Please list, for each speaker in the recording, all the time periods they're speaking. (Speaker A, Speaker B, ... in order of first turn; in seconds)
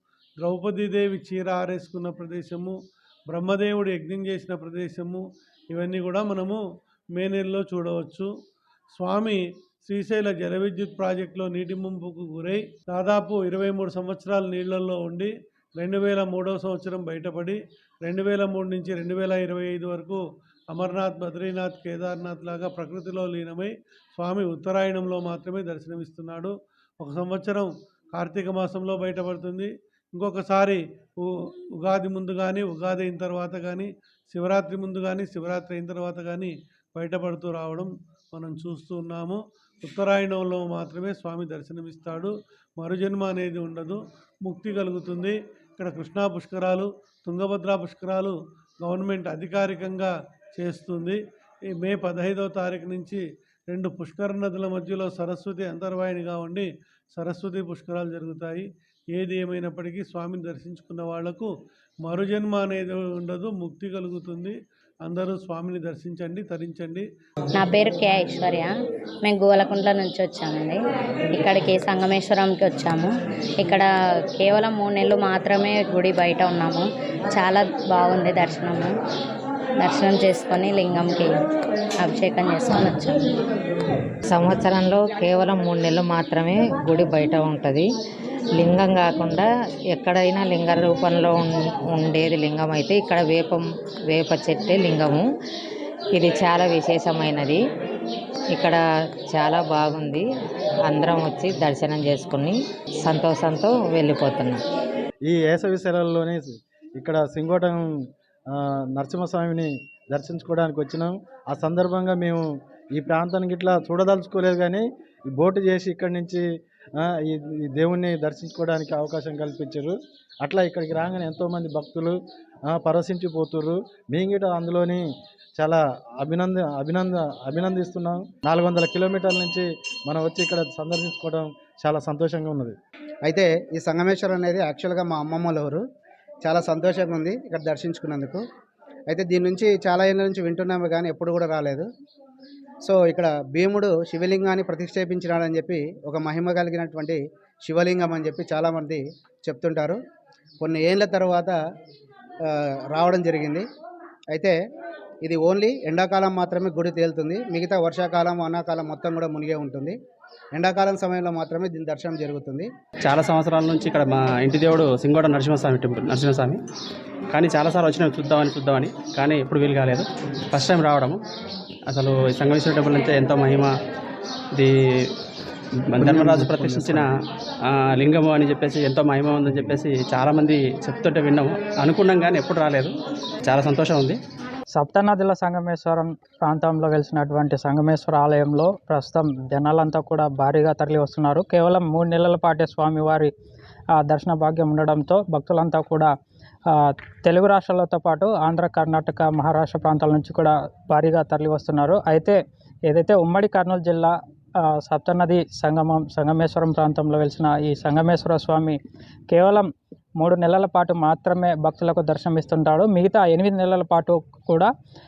Speaker A: 0.4-2.8, 3.3-6.6, 7.2-8.3, 8.9-20.2, 20.7-31.3, 31.8-51.2, 51.8-61.5, 62.0-67.1
Speaker B: 67.6-68.7, 69.2-70.8, 71.3-73.8, 74.4-78.9, 79.8-81.3, 82.0-83.2
Speaker C: 69.4-70.8, 71.6-73.0, 74.7-76.7, 80.0-81.0, 82.2-83.1, 163.1-166.6, 167.3-171.2, 171.9-173.7, 174.6-175.1, 175.9-177.1, 177.7-182.9, 183.5-184.2
Speaker D: 84.3-87.9, 88.6-95.3, 96.1-97.6, 98.5-98.8, 99.3-100.3, 100.9-104.6
Speaker E: 105.3-107.8, 108.5-112.4, 113.0-116.4, 117.0-122.2, 122.7-125.0, 125.6-132.8
Speaker F: 133.2-135.8, 136.4-138.4, 139.1-141.9, 142.8-150.0, 150.6-151.6, 152.5-153.7, 154.3-154.6, 155.2-160.0, 160.5-162.7, 176.0-177.1
Speaker G: 184.8-193.3, 194.0-196.1, 196.7-204.1, 204.8-208.8, 209.3-214.7